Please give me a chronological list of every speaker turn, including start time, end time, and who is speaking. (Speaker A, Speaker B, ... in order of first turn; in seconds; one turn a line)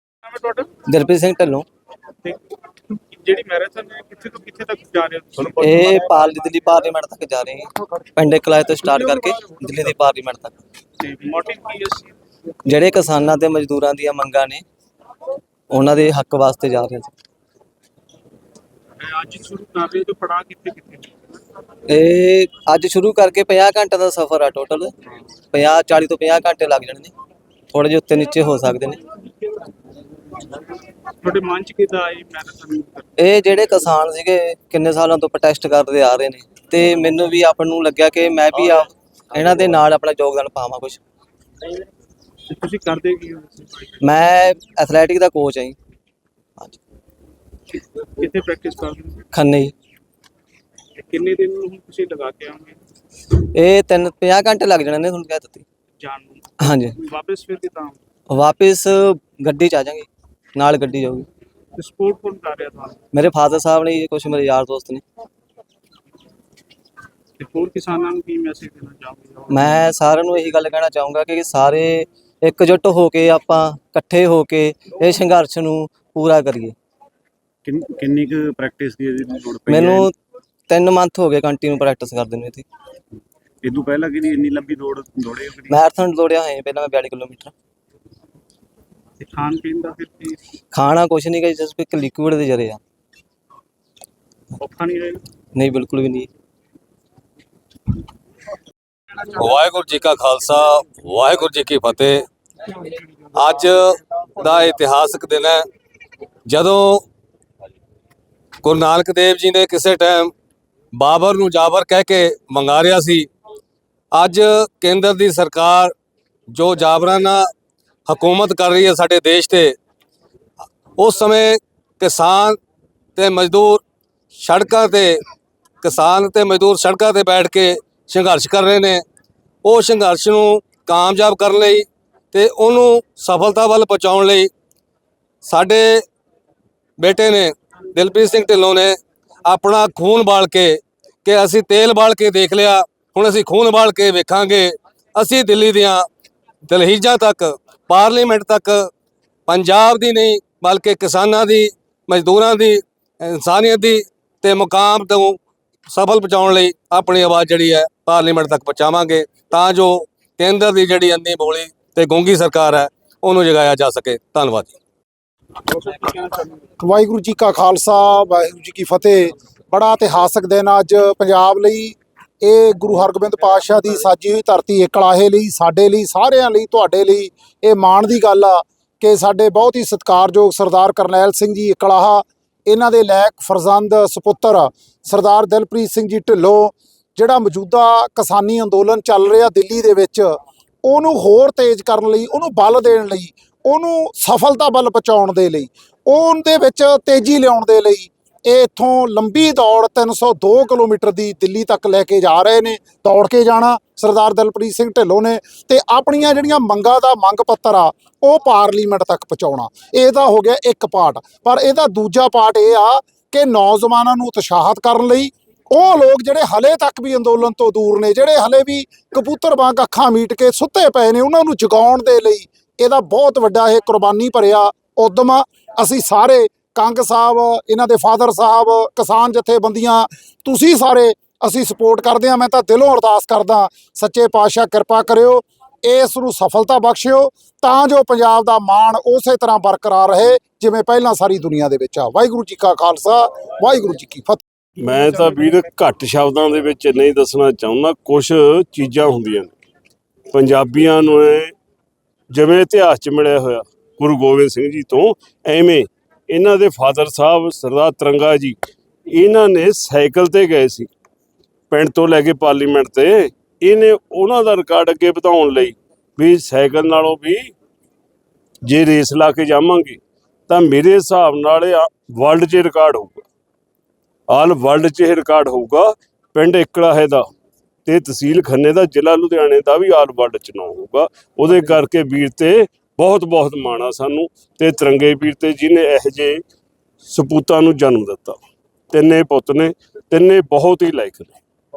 Speaker A: 0.2-0.7
Speaker B: 0.9-1.7
Speaker A: 2.2-6.1
Speaker B: 5.5-10.6
Speaker A: 11.0-12.1
Speaker B: 12.7-14.6
Speaker B: 15.7-17.1
Speaker A: 19.0-21.4
Speaker B: 21.9-24.9
Speaker B: 25.5-27.1
Speaker B: 27.7-29.0
Speaker A: 31.2-33.1
Speaker B: 33.2-41.0
Speaker A: 42.5-43.9
Speaker B: 44.0-45.8
Speaker A: 48.2-49.2
Speaker B: 49.3-49.7
Speaker A: 50.9-52.8
Speaker B: 53.3-55.6
Speaker A: 56.0-58.0
Speaker B: 56.6-57.0
Speaker B: 58.3-61.3
Speaker A: 61.8-63.0
Speaker B: 63.1-65.0
Speaker A: 67.4-69.8
Speaker B: 69.5-76.8
Speaker C: 77.6-80.1
Speaker B: 79.7-80.1
Speaker B: 80.7-82.7
Speaker C: 83.6-85.8
Speaker B: 85.7-87.5
Speaker A: 89.2-90.4
Speaker B: 90.7-92.8
Speaker A: 94.6-95.2
Speaker B: 95.5-96.3
Speaker D: 99.2-105.6
Speaker D: 106.5-107.0
Speaker D: 108.6-110.3
Speaker D: 110.9-113.3
Speaker D: 114.1-115.9
Speaker D: 116.5-117.4
Speaker D: 118.1-119.7
Speaker D: 121.0-122.6
Speaker D: 123.2-123.8
Speaker D: 124.3-125.2
Speaker D: 125.8-129.0
Speaker D: 129.6-134.5
Speaker D: 135.4-136.0
Speaker D: 137.0-146.1
Speaker D: 146.7-148.9
Speaker D: 149.5-155.4
Speaker D: 155.9-164.7
Speaker A: 165.7-166.6
Speaker E: 166.8-190.3
Speaker E: 190.8-244.4
Speaker F: 244.8-249.5
Speaker F: 250.3-251.5
Speaker F: 252.3-258.6
Speaker F: 259.1-260.9
Speaker F: 261.7-267.5
Speaker F: 268.6-273.2
Speaker F: 274.3-277.2
Speaker F: 277.9-286.4
Speaker F: 287.1-288.4
Speaker F: 288.9-291.4